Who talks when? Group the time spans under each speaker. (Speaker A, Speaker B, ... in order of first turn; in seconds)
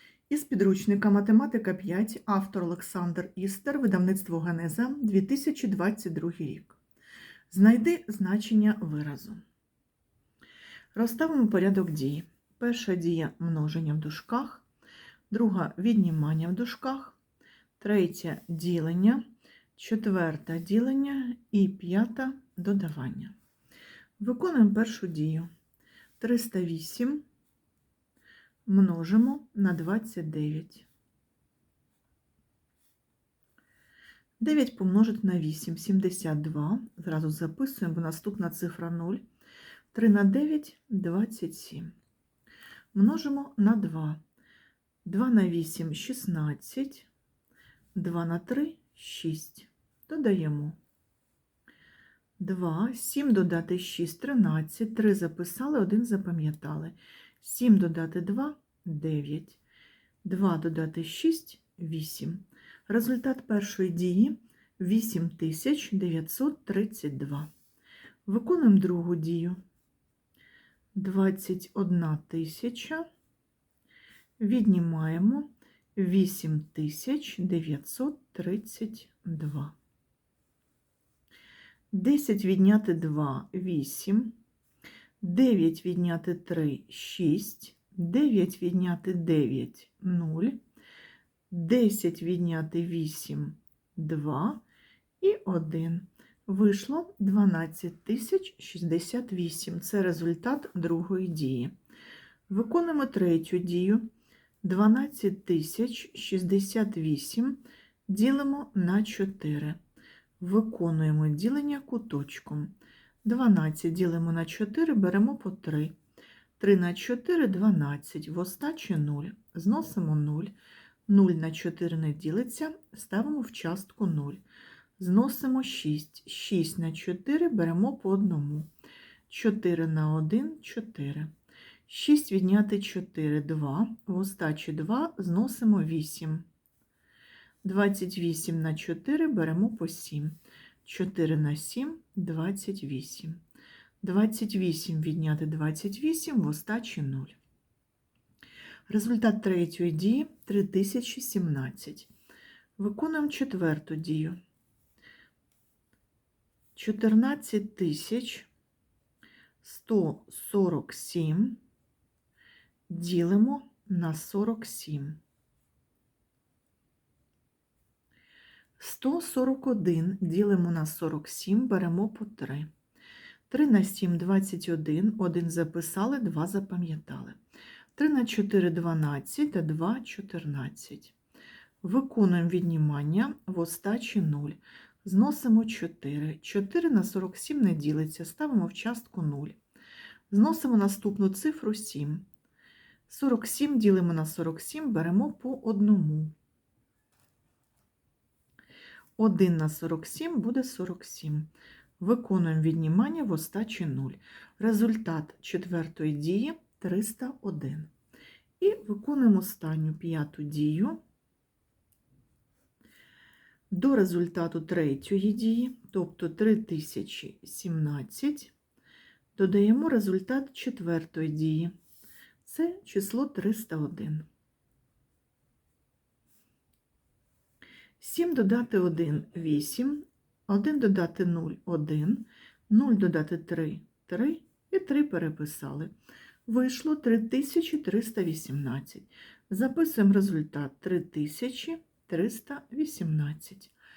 Speaker A: 0.3-6.8, 7.5-9.4, 10.9-14.7, 15.3-17.2, 17.8-19.2, 19.8-23.3, 24.2-25.5, 26.2-27.2, 28.6-30.9, 34.4-39.2, 39.9-41.9, 42.9-44.2, 45.0-47.1, 47.9-50.8, 52.4-59.6, 60.2-67.5, 68.2-69.6, 70.9-73.1, 74.4-79.7, 81.9-84.4, 85.2-90.6, 91.5-94.6, 95.2-101.7, 102.5-104.1, 104.6-109.8, 110.4-116.0, 116.6-120.5, 121.1-124.4, 125.0-128.7, 129.3-131.3, 131.9-136.4, 137.6-143.4, 144.0-147.4, 148.9-152.1, 152.8-154.4, 156.7-158.5, 159.6-161.6, 162.9-165.2, 168.8-172.7, 173.5-177.4, 177.9-181.1, 181.8-189.6, 190.3-192.2, 193.1-196.3, 199.2-207.9, 208.6-211.0, 213.7-218.5, 219.3-221.7, 222.4-224.3, 228.0-235.9, 236.4-243.7